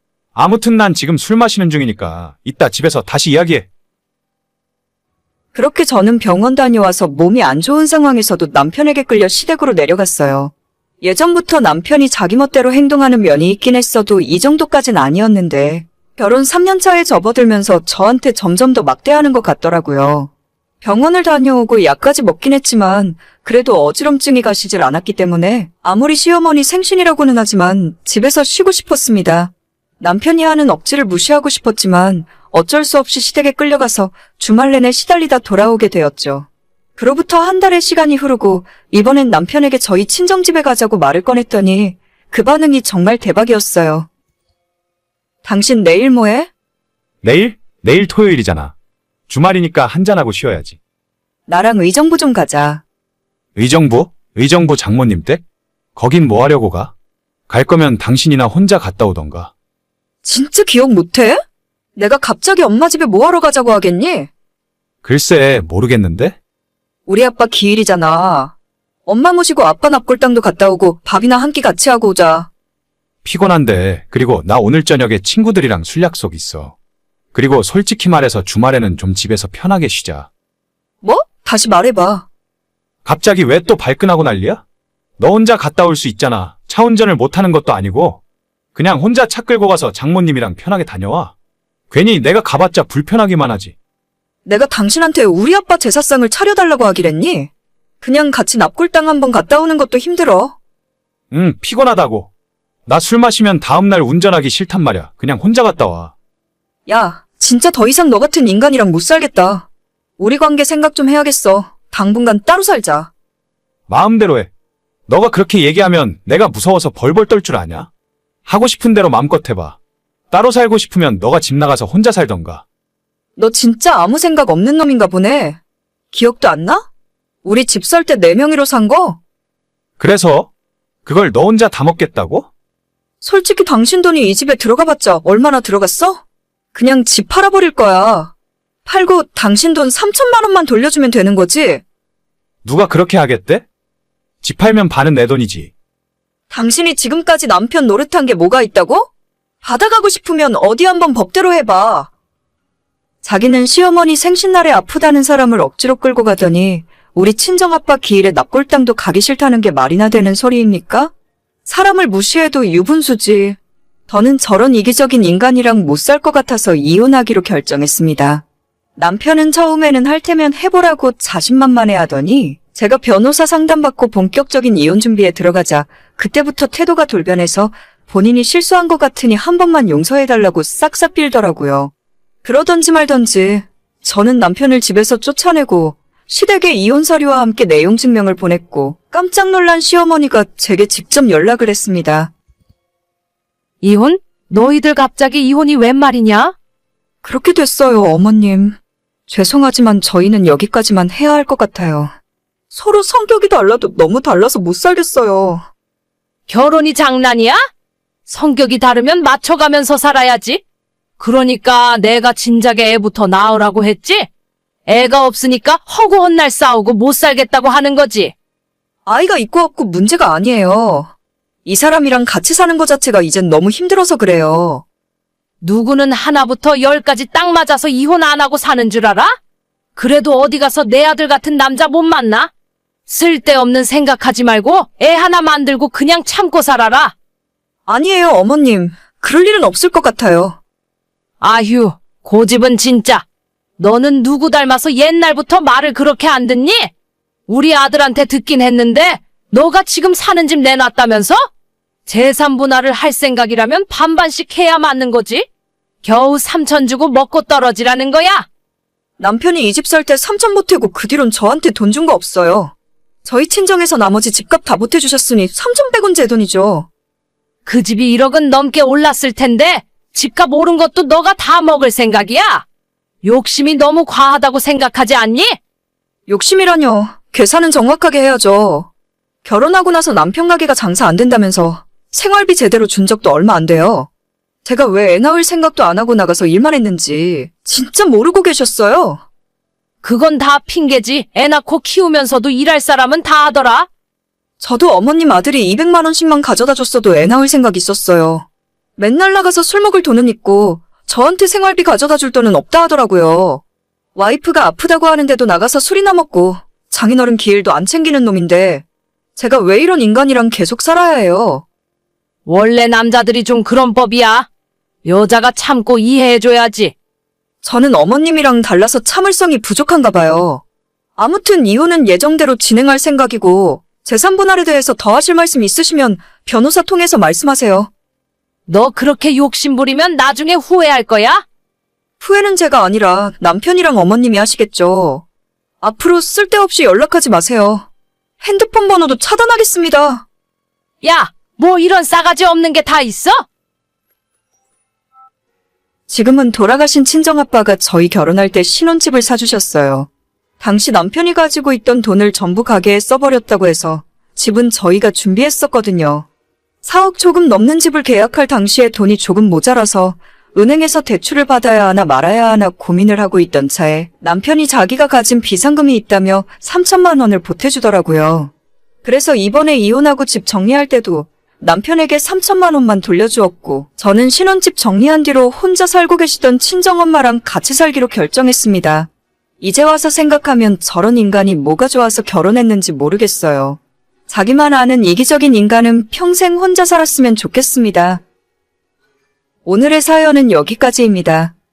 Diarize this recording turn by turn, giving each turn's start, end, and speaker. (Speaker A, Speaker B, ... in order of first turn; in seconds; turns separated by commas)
Speaker A: 0.3-3.7, Speaker B: 5.5-20.3, Speaker B: 20.8-36.5, Speaker B: 37.0-44.1, Speaker B: 45.4-46.5, Speaker A: 47.2-48.7, Speaker A: 49.3-50.8, Speaker B: 51.5-52.8, Speaker A: 53.5-55.4, Speaker A: 56.0-56.9, Speaker A: 57.5-59.5, Speaker B: 60.2-61.4, Speaker B: 62.0-64.3, Speaker A: 65.0-66.4, Speaker B: 67.1-68.5, Speaker B: 69.0-72.5, Speaker A: 73.2-76.7, Speaker A: 77.3-80.3, Speaker B: 81.0-82.3, Speaker A: 83.0-84.6, Speaker A: 85.2-88.2, Speaker A: 88.7-91.3, Speaker A: 91.9-93.7, Speaker B: 94.5-97.5, Speaker B: 98.0-100.5, Speaker A: 101.3-102.3, Speaker A: 102.8-106.1, Speaker B: 106.9-109.7, Speaker B: 110.2-113.1, Speaker A: 113.9-114.5, Speaker A: 115.1-117.9, Speaker A: 118.5-119.8, Speaker A: 120.3-122.6, Speaker B: 123.3-125.6, Speaker B: 126.1-126.8, Speaker B: 127.4-129.2, Speaker A: 130.0-130.5, Speaker A: 131.0-132.5, Speaker B: 133.2-136.2, Speaker B: 136.7-138.3, Speaker B: 138.8-141.8, Speaker A: 142.6-143.6, Speaker A: 144.4-145.7, Speaker B: 146.5-149.1, Speaker B: 149.6-152.1, Speaker B: 153.2-161.1, Speaker B: 161.6-163.6, Speaker B: 164.1-168.4, Speaker B: 169.0-181.9, Speaker B: 182.4-192.3, Speaker C: 193.8-196.5, Speaker B: 197.2-202.1, Speaker B: 202.7-205.7, Speaker C: 206.5-207.6, Speaker C: 208.3-210.6, Speaker C: 211.2-214.3, Speaker C: 214.9-218.3, Speaker B: 219.1-221.1, Speaker B: 221.6-224.8, Speaker C: 225.6-229.3, Speaker C: 229.9-232.5, Speaker C: 233.1-237.1, Speaker B: 237.9-240.6, Speaker C: 241.4-243.2, Speaker C: 243.8-246.9, Speaker C: 247.5-251.4, Speaker C: 252.1-255.4, Speaker C: 256.0-258.4, Speaker B: 259.2-262.7, Speaker B: 263.2-266.9, Speaker C: 267.6-272.6, Speaker C: 273.2-275.5, Speaker B: 276.3-278.9, Speaker B: 279.4-284.1, Speaker B: 284.6-289.2, Speaker C: 290.0-293.9, Speaker B: 294.6-298.4, Speaker B: 299.0-303.6, Speaker B: 304.1-308.8, Speaker B: 309.4-311.6, Speaker C: 312.4-314.5, Speaker C: 315.0-316.9, Speaker B: 317.6-320.6, Speaker B: 321.2-327.9, Speaker C: 328.7-331.4, Speaker B: 332.2-335.2, Speaker B: 335.8-337.9, Speaker B: 338.4-340.2, Speaker C: 341.0-343.4, Speaker B: 346.1-350.1, Speaker B: 350.6-356.3, Speaker B: 356.8-368.5, Speaker B: 369.0-379.1, Speaker B: 379.6-388.2, Speaker B: 389.6-391.5